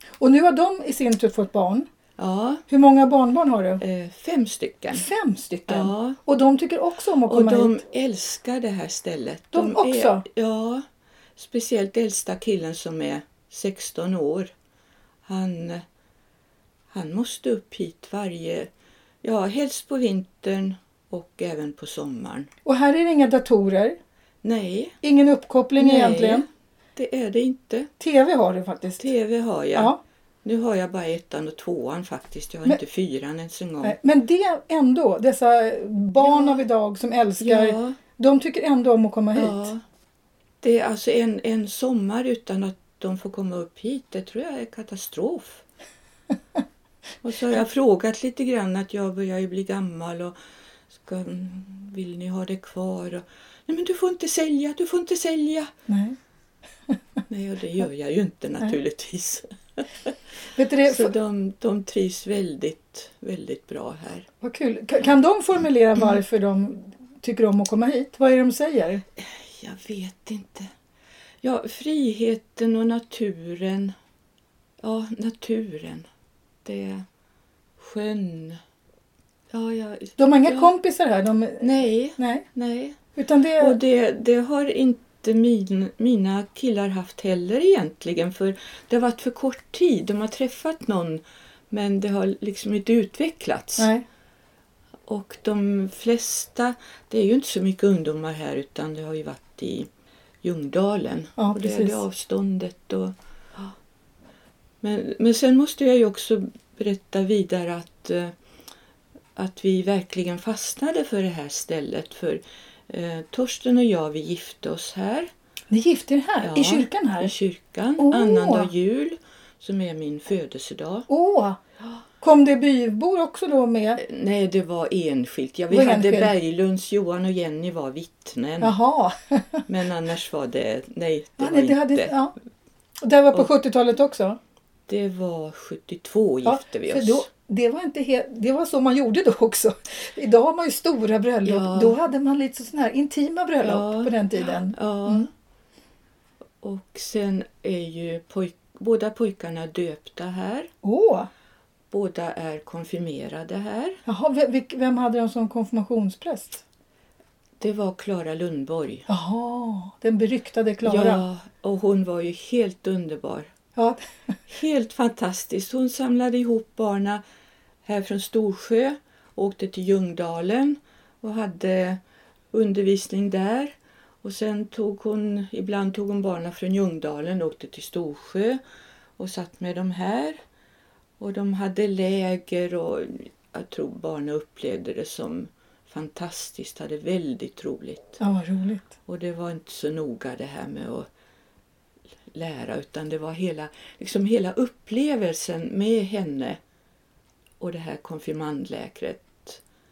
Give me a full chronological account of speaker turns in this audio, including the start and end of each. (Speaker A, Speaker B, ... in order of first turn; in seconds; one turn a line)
Speaker A: 0.2-1.9
Speaker B: 2.2-2.6
Speaker A: 2.7-3.8
Speaker B: 3.8-5.0
Speaker A: 4.9-7.8
Speaker B: 5.7-6.2
Speaker B: 7.2-10.8
Speaker A: 9.5-10.2
Speaker B: 11.3-14.5
Speaker B: 15.2-15.8
Speaker B: 16.9-18.7
Speaker B: 19.2-22.5
Speaker A: 22.6-24.0
Speaker B: 24.4-25.0
Speaker A: 25.0-26.4
Speaker B: 25.8-27.9
Speaker A: 28.0-29.1
Speaker B: 29.0-34.0
Speaker A: 33.8-39.7
Speaker B: 36.2-36.6
Speaker B: 37.4-38.0
Speaker B: 39.3-39.8
Speaker B: 40.6-45.6
Speaker B: 47.2-50.3
Speaker B: 50.9-55.7
Speaker A: 55.9-56.2
Speaker B: 57.3-60.1
Speaker A: 60.5-61.1
Speaker B: 60.8-64.3
Speaker A: 64.4-69.0
Speaker B: 69.2-70.7
Speaker B: 71.4-73.9
Speaker B: 74.8-76.1
Speaker B: 76.6-77.0
Speaker B: 77.8-78.6
Speaker B: 79.5-80.7
Speaker A: 80.2-81.7
Speaker B: 81.6-83.0
Speaker A: 82.2-82.5
Speaker A: 83.2-83.8
Speaker B: 83.6-93.9
Speaker A: 93.8-94.0
Speaker B: 95.1-99.9
Speaker B: 100.4-103.7
Speaker A: 101.4-102.0
Speaker B: 104.8-108.3
Speaker B: 109.3-115.3
Speaker A: 115.7-117.3
Speaker B: 116.4-121.1
Speaker A: 118.0-118.7
Speaker A: 121.1-121.6
Speaker A: 122.2-124.0
Speaker B: 124.0-128.8
Speaker A: 125.7-126.3
Speaker A: 128.6-129.6
Speaker B: 129.7-132.1
Speaker A: 131.4-132.3
Speaker A: 133.0-134.4
Speaker B: 134.9-137.2
Speaker A: 136.4-145.2
Speaker B: 141.4-142.0
Speaker B: 143.6-145.3
Speaker B: 146.6-150.7
Speaker A: 150.8-151.3
Speaker B: 151.9-154.0
Speaker A: 154.1-156.6
Speaker B: 157.6-159.1
Speaker A: 159.1-161.2
Speaker B: 160.8-163.5
Speaker A: 163.8-164.0
Speaker B: 164.5-167.2
Speaker B: 167.8-172.0
Speaker B: 172.5-178.6
Speaker B: 179.2-180.4
Speaker B: 181.2-188.2
Speaker A: 188.2-188.9
Speaker B: 189.1-191.1
Speaker B: 192.3-196.6
Speaker B: 197.6-199.6